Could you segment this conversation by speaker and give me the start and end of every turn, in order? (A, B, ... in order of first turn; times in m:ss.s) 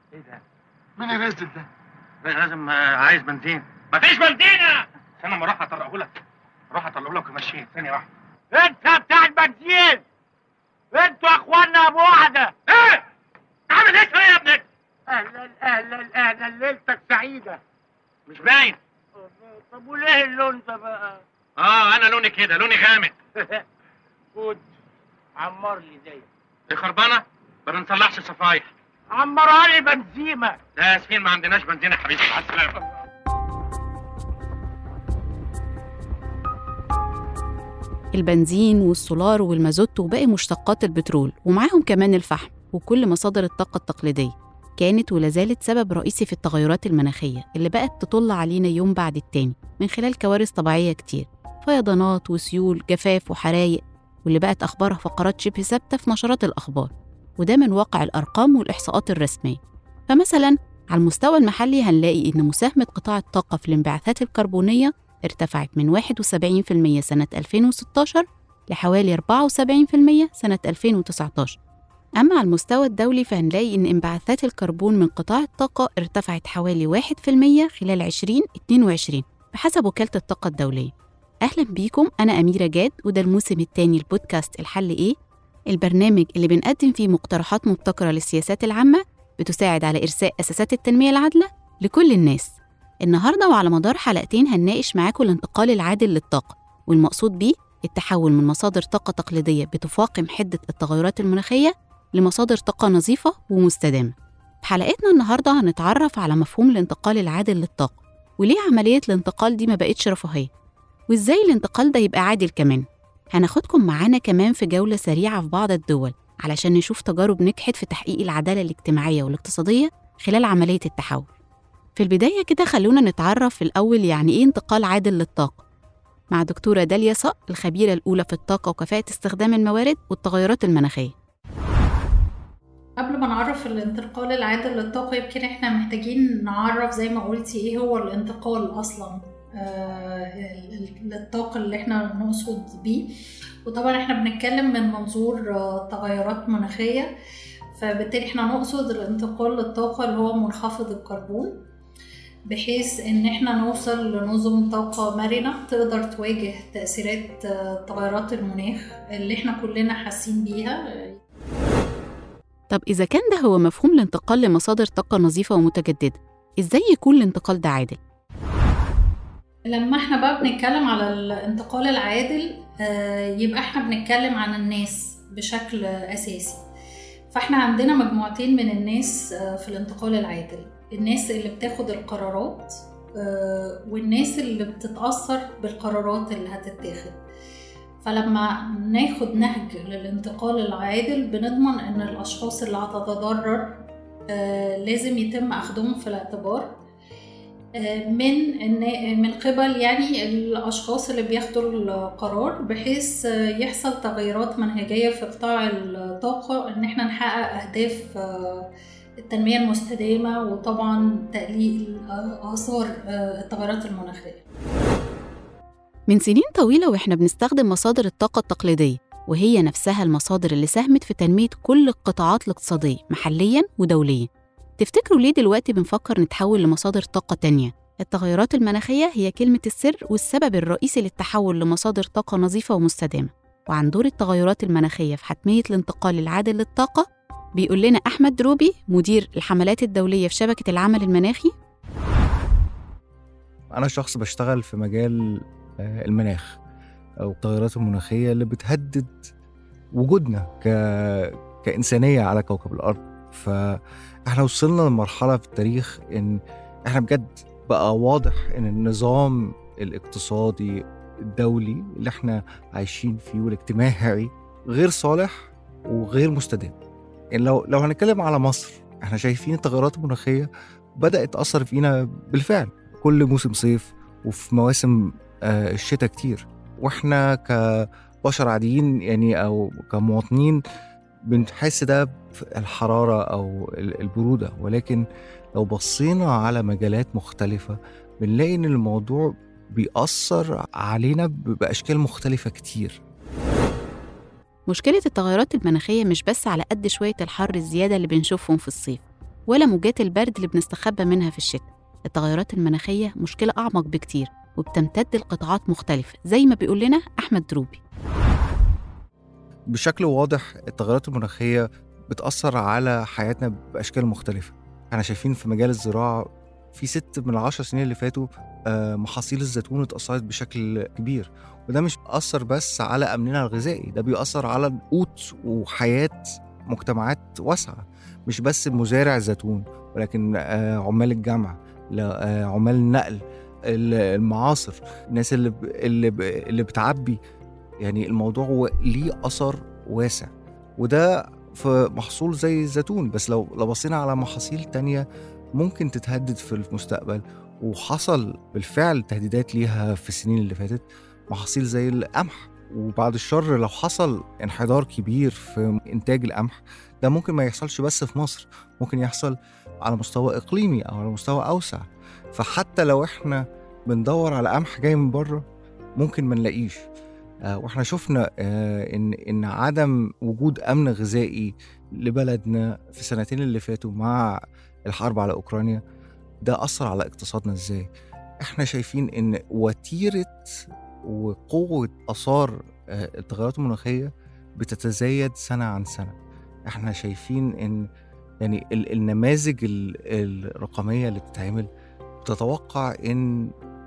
0:01.0-0:01.6 A
0:02.2-0:06.1 A
0:06.7-0:08.1 A
0:08.5-0:10.0 B
0:10.9-0:12.5 B
0:12.7-0:13.0 A
0:13.7-0:14.6 A
0:15.1-0:17.6 B
0:18.3-0:18.8 A
0:19.2-0:21.2 B
0:21.6-0:23.2 A
0:24.4-0:24.7 B
0:25.4-0:26.2 B
0:26.7-0:28.7 A
0:29.1-0:30.6 B
0:30.8-0:32.8 A
0:38.2-1:11.6 C
1:12.2-1:20.9 C
1:21.4-1:25.2 C
1:25.7-1:50.5 C
1:51.1-2:01.3 C
2:02.0-2:05.6 C
2:06.3-2:11.1 C
2:13.0-2:27.1 D
2:27.7-2:31.6 D
2:32.5-2:41.2 D
2:42.7-2:48.0 C
2:49.7-2:56.6 D
2:57.3-3:07.2 D
3:08.0-3:13.8 D
3:14.3-3:16.8 D
3:17.8-3:28.7 D
3:29.2-3:34.4 D
3:36.1-3:44.3 C
3:44.8-3:57.1 C
3:57.6-4:01.5 C
4:03.7-4:06.6 E
4:07.2-4:09.2 E
4:10.0-4:26.8 E
4:27.3-4:35.0 E
4:35.5-4:40.6 E
4:41.3-4:45.0 E
4:45.6-4:53.0 E
4:54.7-5:07.8 C
5:09.7-5:37.2 E
5:37.8-5:45.0 E
5:45.6-6:05.4 E
6:06.0-6:06.9 E
6:07.5-6:14.3 E
6:14.9-6:15.8 E
6:16.4-6:17.9 E
6:18.4-6:20.4 E
6:21.1-6:26.1 E
6:26.7-6:27.8 E
6:28.4-6:31.7 E
6:32.2-6:33.5 E